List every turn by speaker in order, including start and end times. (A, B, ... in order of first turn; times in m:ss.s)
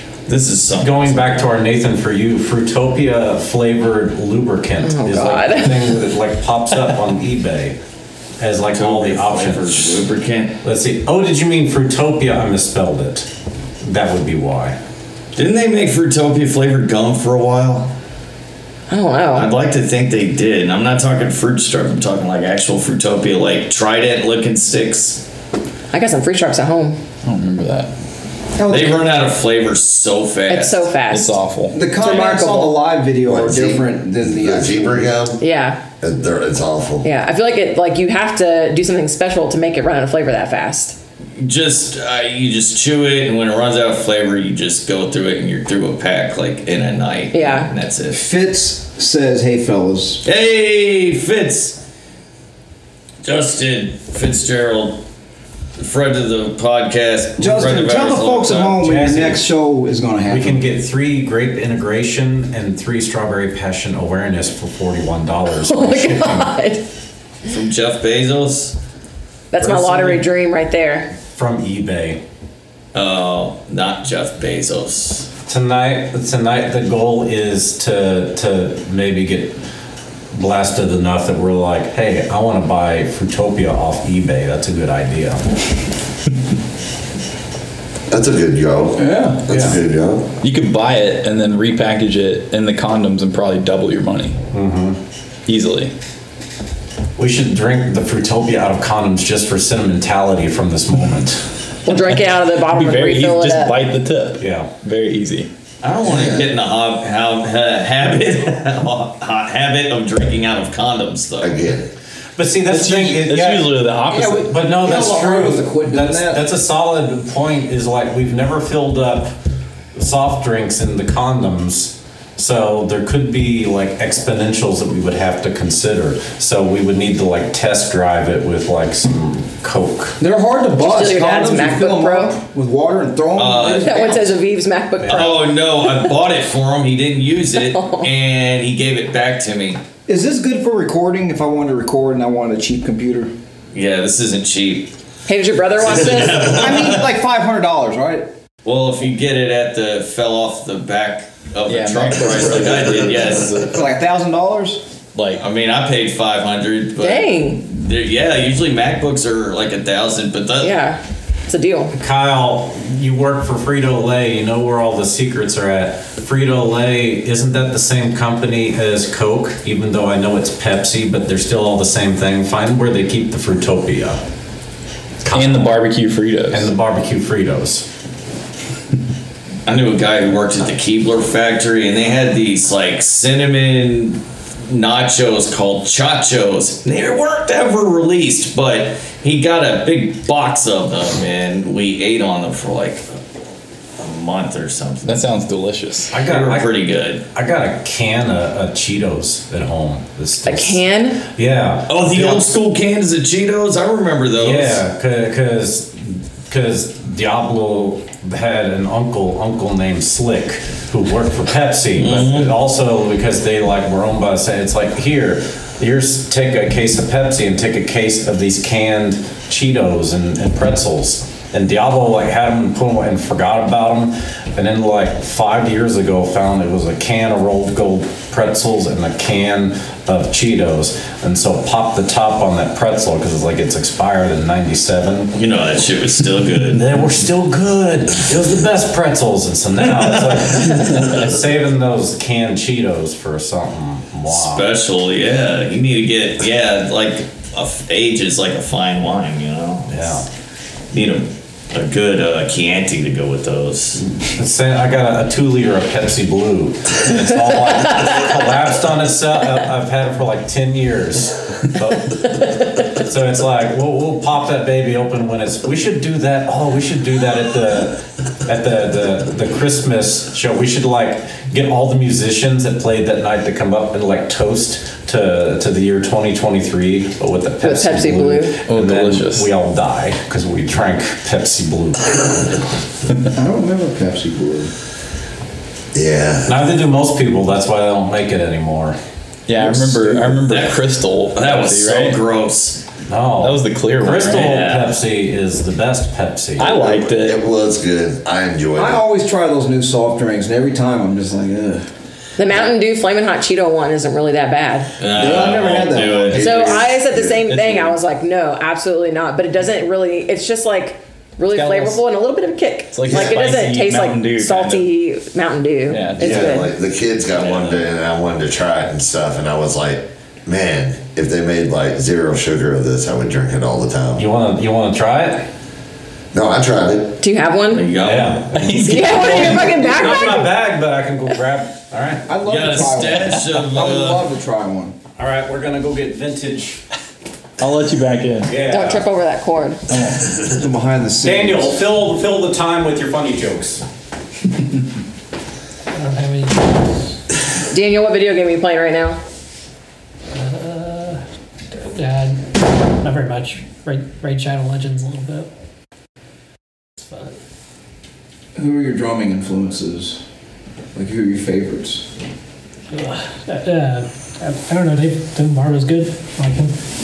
0:00.3-0:01.4 A
0:00.8-0:07.8 B
0:04.8-0:06.0 C
0:08.4-0:10.0 B
0:08.7-0:10.6 A
0:10.6-0:13.3 B
0:13.8-0:14.8 B
0:15.4-0:17.9 A
0:18.9-0:19.5 C
0:19.4-0:25.2 A
0:25.9-0:27.0 C
0:27.2-0:27.9 D
0:28.6-0:29.1 E
0:28.7-0:30.9 A
0:30.5-0:32.8 C
0:31.1-0:31.8 D
0:31.7-0:35.2 E
0:33.2-0:35.4 F
0:35.4-0:35.8 C
0:36.0-0:37.1 F
0:37.0-0:41.0 C
0:41.4-0:48.2 A
0:47.3-0:47.7 C
0:48.1-0:50.2 E
0:50.2-0:51.8 A
0:53.2-0:55.0 A
0:55.8-0:58.8 A
0:57.4-1:00.6 E
0:58.8-0:59.4 B
1:00.3-1:06.5 B
1:05.6-1:06.8 C
1:07.5-1:08.8 A
1:09.5-1:11.1 C
1:09.6-1:10.3 B
1:11.3-1:12.2 B
1:12.9-1:15.3 A
1:15.5-1:19.6 B
1:20.3-1:25.4 B
1:28.1-1:30.3 F
1:29.0-1:29.4 E
1:29.5-1:29.8 B
1:30.4-1:34.4 D
1:34.5-1:35.0 B
1:35.5-1:35.9 D
1:37.2-1:41.5 B
1:41.8-1:43.8 C
1:42.6-1:45.5 D
1:44.4-1:44.7 B
1:45.8-1:51.6 A
1:46.0-1:46.5 F
1:51.4-1:51.9 F
1:52.4-1:53.8 B
1:52.7-1:54.5 D
1:54.1-1:56.4 E
1:54.5-1:59.3 B
2:00.0-2:10.2 B
2:10.2-2:14.3 E
2:10.8-2:12.4 C
2:13.4-2:14.2 A
2:13.8-2:16.1 C
2:15.0-2:15.4 B
2:15.1-2:19.8 A
2:17.5-2:18.1 C
2:20.1-2:23.3 E
2:23.7-2:24.9 A
2:25.3-2:26.7 C
2:25.8-2:27.1 A
2:26.4-2:28.3 E
2:28.6-2:33.6 A
2:31.7-2:33.8 D
2:33.6-2:34.8 E
2:35.2-2:35.4 D
2:35.4-2:40.8 A
2:37.0-2:37.6 C
2:40.6-2:42.0 C
2:41.9-2:54.2 B
2:55.2-2:55.8 B
2:55.3-2:56.7 D
2:56.5-2:57.9 B
2:59.7-3:13.2 A
3:14.0-3:15.2 A
3:15.0-3:16.1 D
3:16.1-3:22.5 B
3:16.2-3:17.2 A
3:20.5-3:21.2 C
3:21.9-3:24.8 A
3:24.4-3:55.3 B
3:32.0-3:32.5 A
3:55.3-3:56.8 A
3:56.7-4:04.7 B
3:59.9-4:01.2 A
4:04.3-4:10.2 A
4:09.9-4:10.3 B
4:10.9-4:14.0 A
4:14.1-4:42.6 B
4:37.6-4:38.6 C
4:38.7-4:39.5 D
4:43.3-4:44.7 E
4:45.9-4:46.6 F
4:46.5-4:49.0 B
4:49.5-4:52.2 D
4:49.6-4:50.5 E
4:50.5-4:52.8 A
4:53.1-4:56.9 B
4:53.4-4:54.7 D
4:54.3-4:54.9 A
4:56.6-4:57.4 D
4:56.8-4:59.0 F
4:58.8-5:01.9 E
5:02.4-5:04.9 C
5:05.0-5:06.7 A
5:05.1-5:06.4 E
5:06.2-5:07.4 F
5:06.4-5:16.7 C
5:07.5-5:08.0 D
5:11.5-5:12.0 D
5:12.9-5:14.9 D
5:13.1-5:13.4 F
5:15.9-5:16.5 D
5:16.2-5:24.3 F
5:17.3-5:17.9 A
5:24.2-5:25.5 B
5:26.3-5:27.2 F
5:27.2-5:27.9 C
5:27.7-5:28.7 A
5:28.0-5:32.3 B
5:28.5-5:29.9 D
5:28.7-5:30.5 C
5:32.3-5:35.0 E
5:32.5-5:34.3 A
5:35.2-5:36.8 B
5:37.6-5:38.6 D
5:38.5-5:39.1 B
5:38.6-5:39.8 C
5:39.9-5:40.4 D
5:40.4-5:41.8 E
5:41.2-5:43.8 B
5:45.9-5:46.9 G
5:47.7-5:49.2 C
5:50.3-5:55.5 G
5:57.1-5:57.4 G
5:58.6-6:00.2 E
6:01.0-6:02.1 E
6:02.9-6:06.8 G